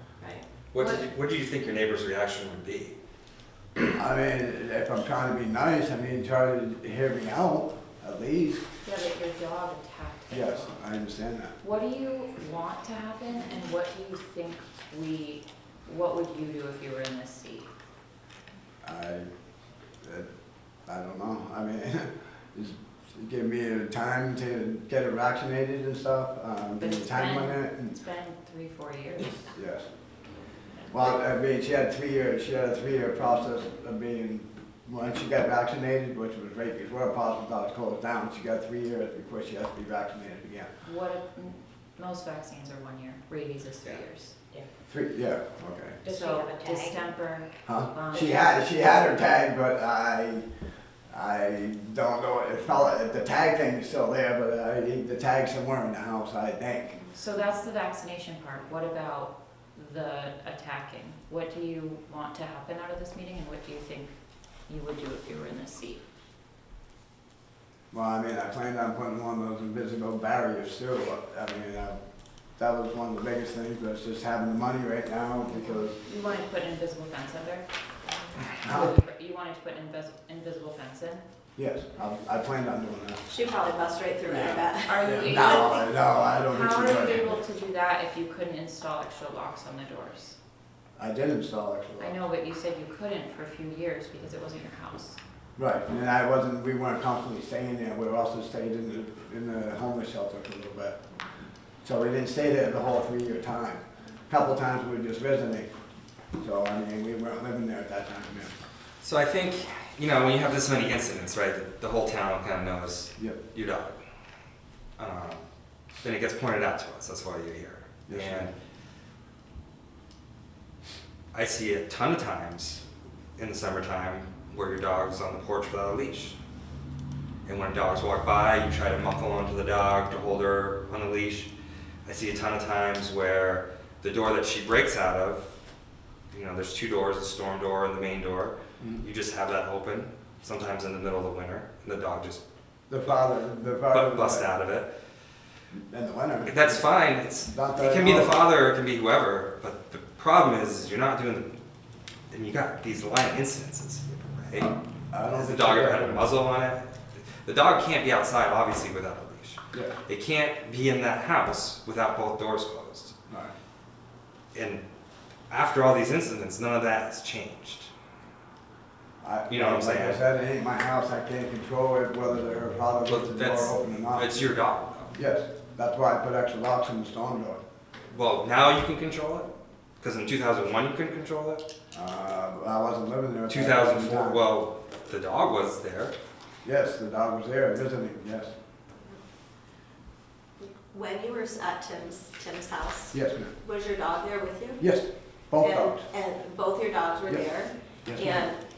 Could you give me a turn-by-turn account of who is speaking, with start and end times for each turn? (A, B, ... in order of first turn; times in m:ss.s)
0:00.7-0:02.9 A
0:03.9-0:08.6 B
0:08.8-0:10.8 C
0:10.3-0:11.5 B
0:11.6-0:17.7 C
0:18.8-0:19.3 B
0:20.0-0:20.3 B
0:20.8-0:27.9 B
0:26.8-0:29.5 C
0:29.2-0:29.9 B
0:30.9-0:40.7 B
0:40.8-0:44.4 C
0:44.9-0:46.0 B
0:46.0-0:48.6 C
0:46.2-0:46.9 D
0:47.6-0:50.4 B
0:51.1-0:57.0 B
0:57.1-1:04.2 C
1:04.7-1:06.0 C
1:07.9-1:12.0 B
1:12.6-1:16.0 B
1:15.8-1:17.6 C
1:18.4-1:21.2 C
1:18.6-1:18.9 B
1:21.6-1:23.2 B
1:23.3-1:25.8 D
1:24.3-1:27.4 B
1:24.8-1:30.4 C
1:31.0-1:32.1 B
1:32.0-1:35.2 C
1:35.6-1:41.0 B
1:41.8-1:45.7 B
1:46.4-1:48.6 B
1:49.0-1:54.0 A
1:55.0-1:55.4 A
1:56.0-1:58.5 A
1:58.1-1:58.5 B
2:01.3-2:02.8 A
2:03.4-2:06.4 A
2:07.4-2:11.5 A
2:12.0-2:15.5 A
2:16.3-2:22.4 A
2:18.8-2:19.0 B
2:22.9-2:24.5 B
2:23.9-2:24.9 A
2:25.9-2:26.9 B
2:26.4-2:31.6 A
2:27.4-2:28.4 B
2:32.3-2:34.7 A
2:35.1-2:36.3 B
2:35.3-2:43.1 A
2:43.3-2:43.5 B
2:44.5-2:44.8 A
2:45.5-2:47.9 A
2:49.2-2:54.3 B
2:49.5-2:50.2 A
2:53.1-2:55.1 A
2:55.1-2:57.6 B
2:58.1-2:59.5 A
3:00.0-3:01.6 A
3:01.9-3:04.4 B
3:03.5-3:06.1 A
3:06.6-3:08.5 B
3:10.6-3:14.8 D
3:13.1-3:13.5 B
3:14.8-3:16.0 B
3:15.6-3:18.6 D
3:18.0-3:18.5 B